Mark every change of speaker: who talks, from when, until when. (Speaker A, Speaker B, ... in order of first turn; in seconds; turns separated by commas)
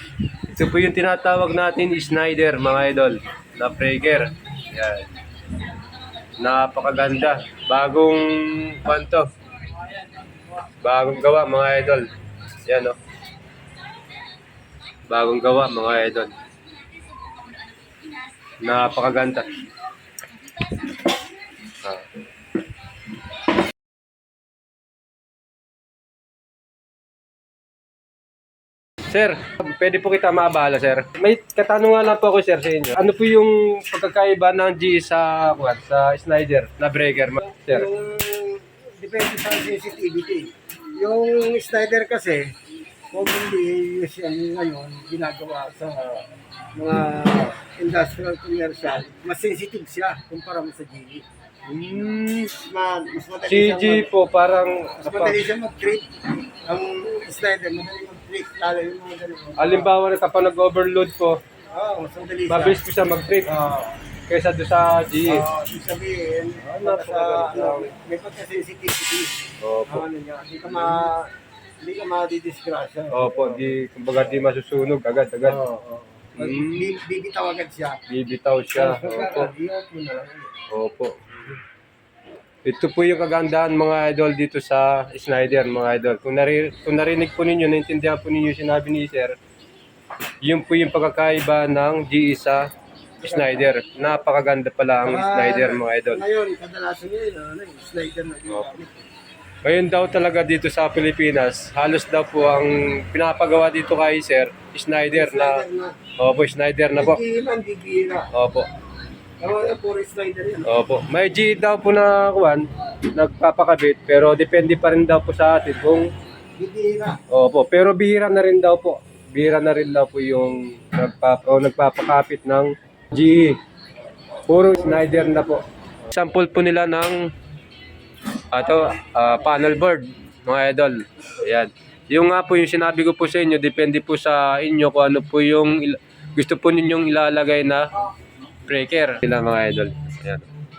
Speaker A: 0.5-5.1, Speaker A: 6.4-9.3, Speaker A: 10.7-12.1, Speaker A: 12.6-12.9, Speaker A: 15.1-16.3, Speaker A: 18.6-19.6, Speaker A: 21.7-22.1, Speaker A: 29.1-37.9, Speaker B: 37.7-42.5, Speaker B: 43.1-51.2, Speaker A: 51.7-52.5, Speaker B: 52.6-54.1, Speaker A: 53.5-55.4, Speaker B: 55.0-59.9, Speaker A: 59.6-61.4, Speaker B: 61.7-62.8, Speaker A: 62.5-63.5, Speaker B: 63.4-64.0, Speaker A: 64.3-65.4, Speaker B: 65.2-73.8, Speaker A: 66.6-67.9, Speaker A: 69.6-70.0, Speaker A: 70.8-71.1, Speaker A: 73.1-75.6, Speaker B: 75.4-78.0, Speaker A: 76.4-76.9, Speaker A: 78.1-79.5, Speaker B: 78.7-80.5, Speaker A: 80.7-81.2, Speaker A: 82.6-89.4, Speaker A: 90.4-92.6, Speaker A: 93.2-96.2, Speaker B: 93.2-93.6, Speaker B: 95.0-99.1, Speaker A: 99.6-105.6, Speaker B: 105.1-106.0, Speaker A: 106.2-107.2, Speaker B: 106.9-108.3, Speaker A: 108.3-108.7, Speaker B: 109.4-110.8, Speaker A: 110.7-116.1, Speaker B: 116.6-117.2, Speaker A: 117.3-123.6, Speaker A: 124.5-127.3, Speaker B: 124.8-125.6, Speaker A: 128.5-137.9, Speaker A: 138.7-140.5